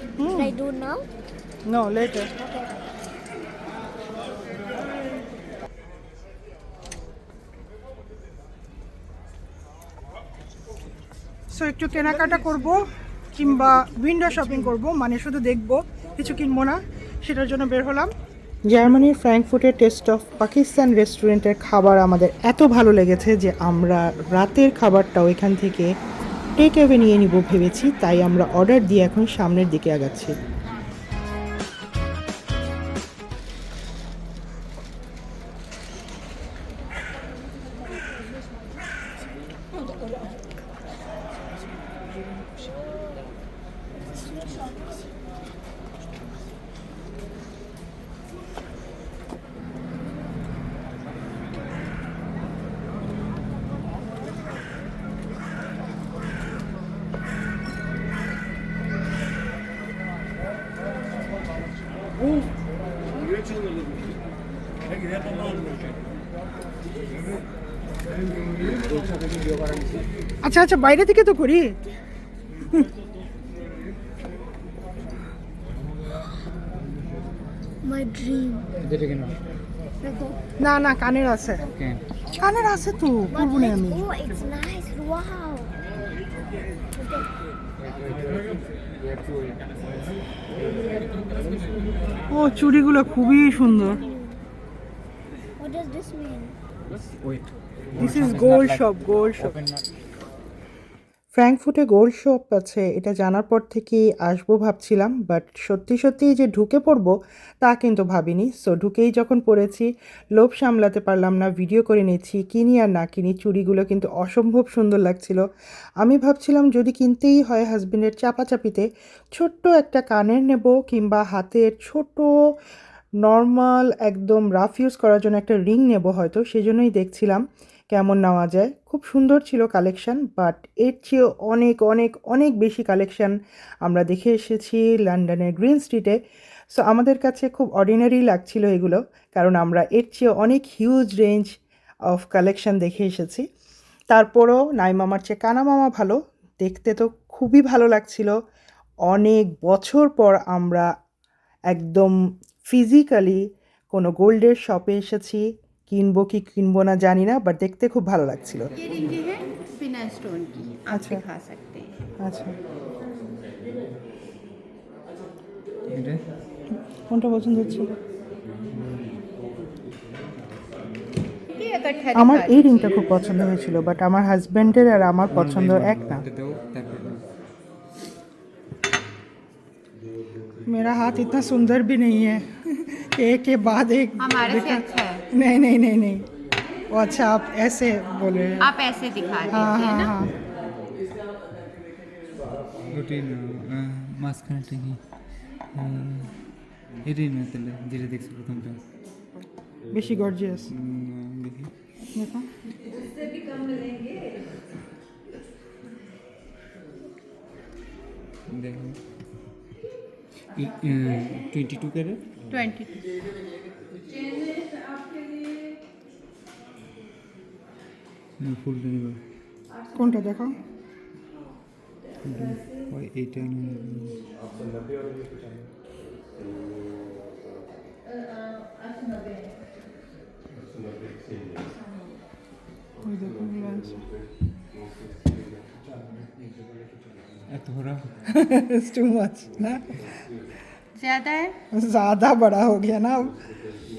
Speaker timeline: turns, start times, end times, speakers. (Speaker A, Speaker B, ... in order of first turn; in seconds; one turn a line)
Speaker A: 0.2-0.6
Speaker B: 0.3-1.1
Speaker A: 1.7-2.3
Speaker B: 2.4-2.7
Speaker A: 11.5-18.1
Speaker A: 18.7-25.9
Speaker A: 26.6-30.3
Speaker A: 70.4-71.8
Speaker B: 77.8-78.7
Speaker C: 78.8-79.4
Speaker B: 80.0-80.4
Speaker A: 80.6-81.7
Speaker C: 81.7-82.0
Speaker A: 82.4-84.0
Speaker B: 83.3-85.8
Speaker B: 86.9-87.3
Speaker C: 87.8-89.8
Speaker A: 92.3-94.0
Speaker B: 93.6-94.4
Speaker B: 95.6-96.6
Speaker C: 96.9-99.9
Speaker A: 98.0-99.5
Speaker A: 101.3-115.4
Speaker A: 116.0-122.3
Speaker A: 123.2-136.2
Speaker A: 136.7-141.5
Speaker A: 142.1-143.4
Speaker A: 144.1-148.3
Speaker A: 149.1-150.9
Speaker A: 151.7-152.2
Speaker A: 152.7-158.7
Speaker D: 158.8-161.9
Speaker A: 160.9-161.2
Speaker A: 162.2-162.5
Speaker C: 165.9-166.2
Speaker A: 167.1-167.9
Speaker C: 168.7-169.2
Speaker D: 171.6-172.6
Speaker A: 172.1-176.2
Speaker C: 175.3-177.3
Speaker A: 180.7-182.5
Speaker A: 183.1-186.2
Speaker D: 184.2-185.2
Speaker A: 186.9-188.7
Speaker D: 188.6-190.1
Speaker A: 189.5-190.3
Speaker C: 192.9-195.0
Speaker C: 195.7-196.4
Speaker C: 197.0-198.9
Speaker A: 199.9-200.7
Speaker C: 200.7-201.7
Speaker A: 202.2-202.5
Speaker C: 208.5-209.0
Speaker C: 210.6-212.3
Speaker D: 212.5-212.9
Speaker C: 218.4-219.2
Speaker A: 219.9-220.6
Speaker C: 222.2-224.3
Speaker A: 233.0-234.0
Speaker C: 237.5-238.1
Speaker A: 238.3-240.1
Speaker D: 240.9-241.6
Speaker A: 241.7-243.4